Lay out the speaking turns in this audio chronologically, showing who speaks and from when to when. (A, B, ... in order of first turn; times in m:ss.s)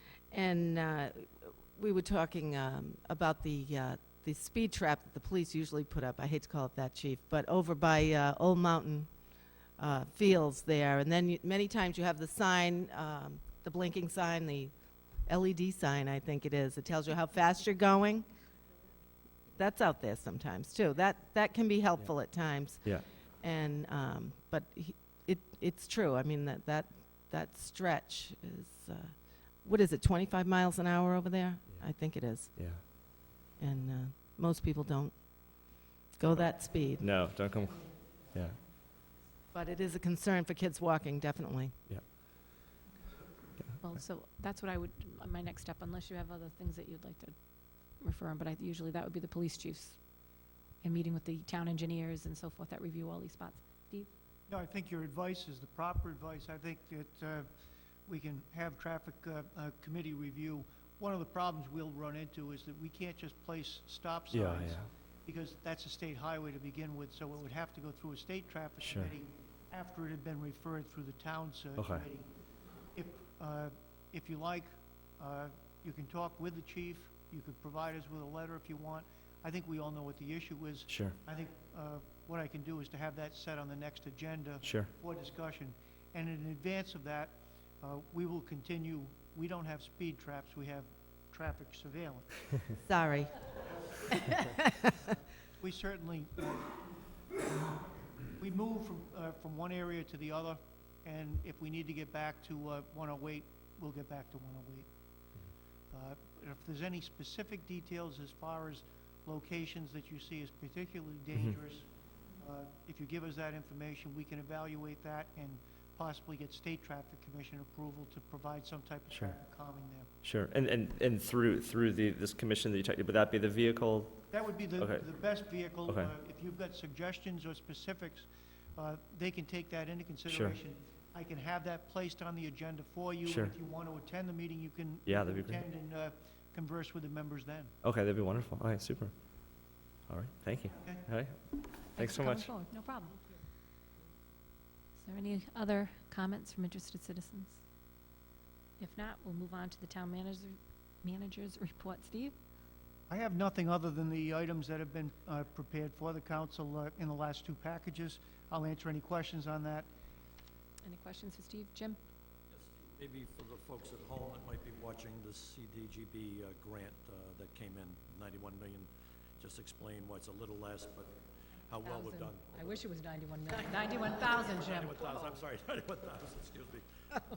0:00.3-0:09.1 A
0:09.8-0:14.7 A
0:15.2-0:18.3 A
0:19.6-0:33.0 A
0:32.6-0:32.8 B
0:33.6-0:37.0 A
0:37.0-0:38.6 B
0:39.5-0:41.8 A
0:43.8-0:47.3 C
0:48.0-0:50.0 C
0:50.8-0:54.1 C
0:54.5-0:57.5 D
0:58.1-1:12.3 D
1:04.3-1:04.9 B
1:08.8-1:09.1 B
1:11.8-1:12.0 B
1:12.9-1:32.5 D
1:20.9-1:21.2 B
1:24.6-1:24.9 B
1:32.8-1:33.6 A
1:35.6-1:36.7 D
1:38.4-1:44.9 D
1:45.9-1:51.9 D
1:52.4-2:00.1 D
2:00.2-2:04.2 B
2:04.3-2:17.7 D
2:04.8-2:05.0 B
2:10.3-2:10.6 B
2:13.2-2:13.5 B
2:15.0-2:15.6 B
2:17.8-2:19.1 B
2:20.1-2:21.4 B
2:20.8-2:21.0 D
2:21.9-2:23.2 C
2:22.0-2:22.5 B
2:25.0-2:27.6 C
2:28.8-2:32.4 C
2:33.1-2:39.9 D
2:40.8-2:42.0 C
2:42.5-2:51.1 E
2:51.7-2:52.8 E
2:51.8-2:55.1 C
2:54.6-2:56.8 E